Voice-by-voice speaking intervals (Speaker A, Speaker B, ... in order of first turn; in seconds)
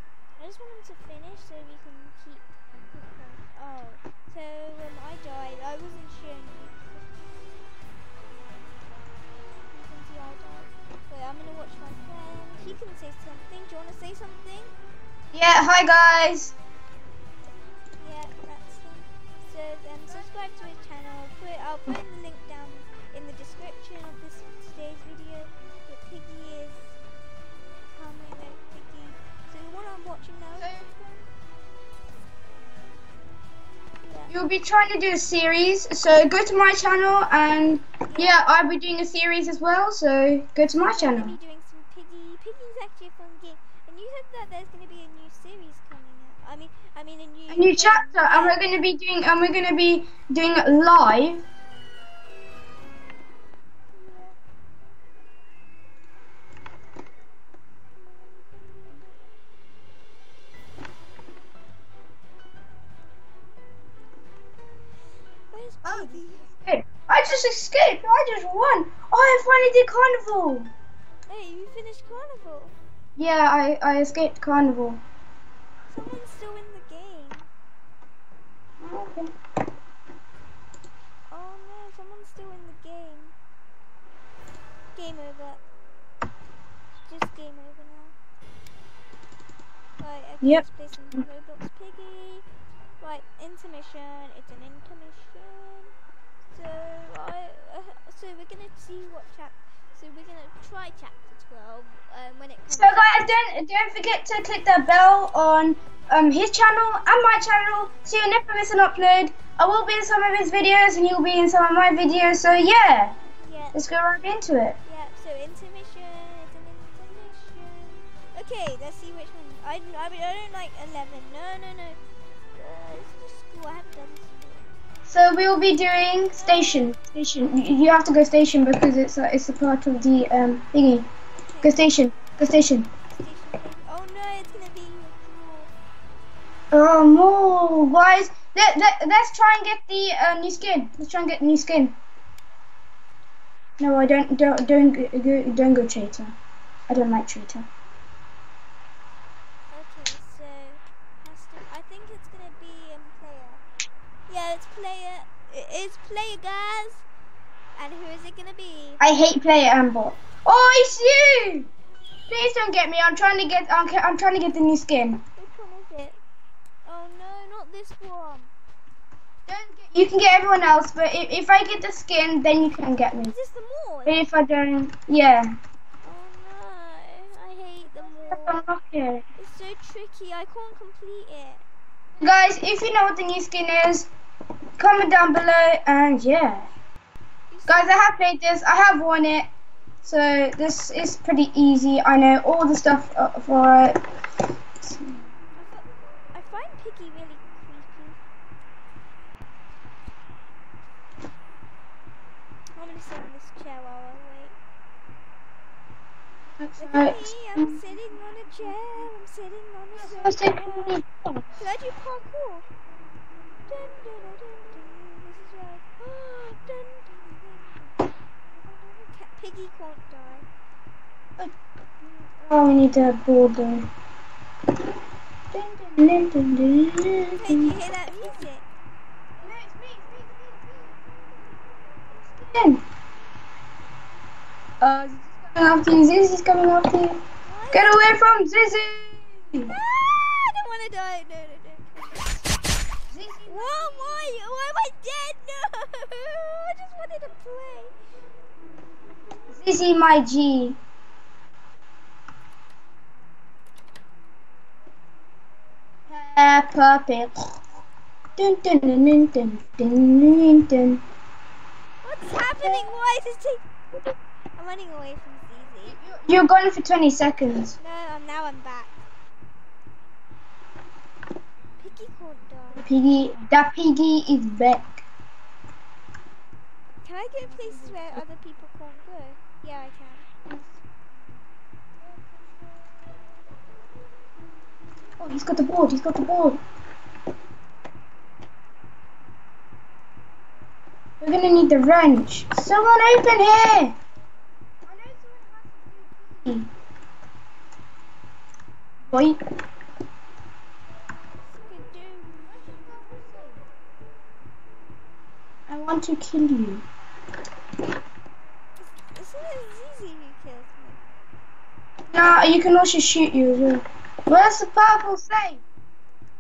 Speaker A: 0.4-7.1, 9.7-14.7, 18.0-27.0, 27.9-30.8, 34.0-34.4, 38.1-38.5, 40.8-48.7, 53.9-54.4, 58.0-59.1, 65.5-66.5, 71.3-72.8, 75.9-77.5, 81.3-83.3, 85.0-85.6, 87.1-88.2, 90.0-92.5, 93.0-95.9, 96.5-103.3, 113.2-113.8, 114.8-122.0, 122.5-124.7, 126.3-126.9, 131.5-131.9, 133.1-135.7, 149.7-153.6, 154.3-157.1, 157.8-159.0, 165.4-166.2, 166.8-168.5, 173.2-174.2, 176.0-178.6, 179.4-181.6, 187.5-188.1, 195.6-198.2, 202.8-204.6, 206.8-211.0, 211.6-212.7, 213.7-218.0, 218.6-220.5, 227.3-228.7, 237.4-238.1, 239.7-242.4, 243.5-247.9, 262.0-263.7, 264.6-266.0, 267.8-269.0, 271.8-272.9, 277.0-280.3, 294.9-296.5, 301.5-302.5, 308.8-311.2
Speaker B: 15.3-16.6, 30.6-31.2, 34.3-41.4, 47.5-51.5, 65.8-70.7, 73.2-75.0, 78.8-79.3, 102.7-113.2, 113.7-114.8, 125.1-131.1, 131.6-132.9, 136.7-142.0, 143.8-146.3, 146.9-147.7, 159.0-161.7, 162.3-165.2, 169.5-173.3, 174.1-175.6, 178.3-179.2, 182.2-184.1, 184.8-186.7, 187.7-189.5, 190.0-194.0, 194.8-195.1, 206.6-207.7, 210.0-211.4, 222.4-223.9, 225.5-227.7, 229.4-231.4, 232.2-232.8, 234.8-237.2, 237.7-239.7, 243.1-244.3, 249.5-250.8, 256.1-257.3, 258.4-261.0, 262.6-262.9, 265.8-267.8, 272.8-275.1, 277.5-278.2, 285.2-286.6, 291.2-294.0, 299.1-299.4, 302.5-303.6, 305.7-306.9, 312.1-315.6